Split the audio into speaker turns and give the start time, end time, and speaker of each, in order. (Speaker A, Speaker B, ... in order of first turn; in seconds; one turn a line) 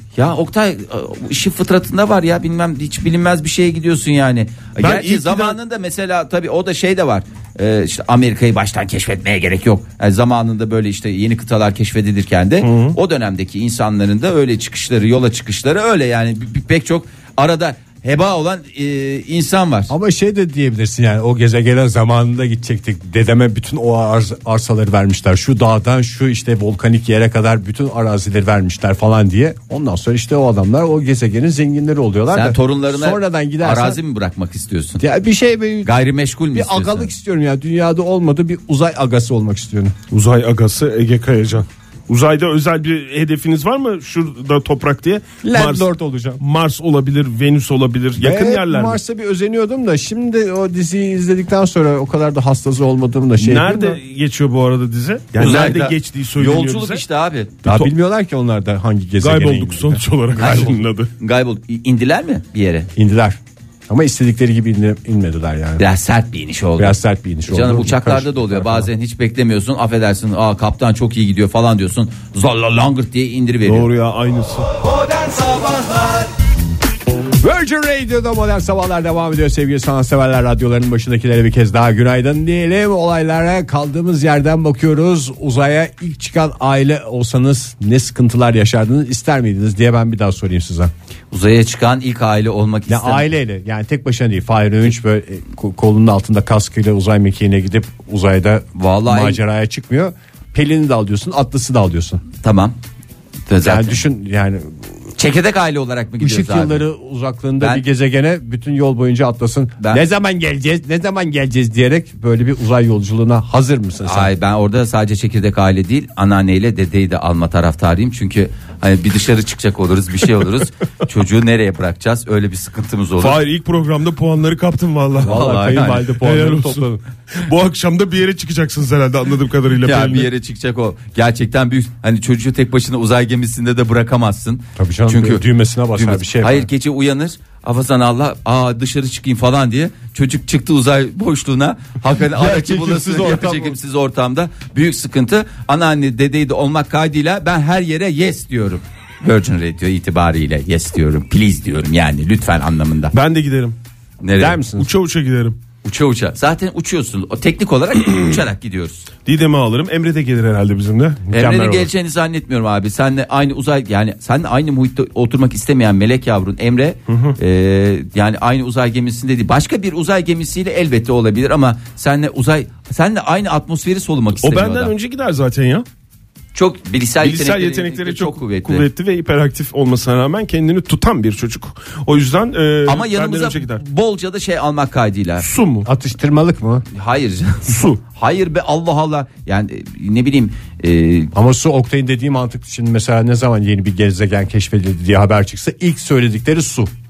Speaker A: 0.2-19.9
Speaker B: 4.8-5.6
Speaker B: 12.6-13.0
Speaker C: 19.9-34.0
Speaker A: 32.3-35.0
Speaker C: 35.0-35.9
Speaker A: 35.8-37.1
Speaker C: 36.5-40.0
Speaker B: 40.1-45.9
Speaker C: 45.4-46.4
Speaker B: 46.4-49.0
Speaker C: 48.2-54.0
Speaker B: 53.4-57.0
Speaker A: 55.4-57.5
Speaker B: 57.6-57.9
Speaker C: 57.6-60.0
Speaker B: 59.2-61.1
Speaker A: 60.4-62.9
Speaker C: 63.0-65.8
Speaker A: 65.8-73.9
Speaker C: 66.8-68.9
Speaker B: 73.7-74.7
Speaker C: 77.4-90.9
Speaker A: 91.3-93.3
Speaker C: 92.9-102.2
Speaker A: 98.8-99.4
Speaker A: 102.4-102.8
Speaker A: 103.5-104.0
Speaker C: 103.6-104.8
Speaker A: 105.2-106.8
Speaker C: 106.2-114.3
Speaker A: 114.0-123.4
Speaker B: 123.2-130.3
Speaker C: 125.2-127.0
Speaker A: 125.3-126.0
Speaker A: 129.8-135.4
Speaker C: 134.8-136.7
Speaker A: 135.9-153.1
Speaker C: 142.4-143.8
Speaker B: 153.1-153.8
Speaker A: 154.2-154.6
Speaker C: 154.4-154.9
Speaker B: 154.8-155.6
Speaker A: 155.8-159.1
Speaker B: 159.2-161.3
Speaker C: 161.3-161.9
Speaker A: 161.3-174.9
Speaker B: 167.1-167.4
Speaker B: 174.4-175.9
Speaker A: 176.5-178.8
Speaker B: 177.2-183.8
Speaker A: 182.9-185.5
Speaker B: 185.4-185.9
Speaker C: 185.8-186.9
Speaker A: 186.9-191.3
Speaker B: 187.7-188.0
Speaker C: 191.3-196.9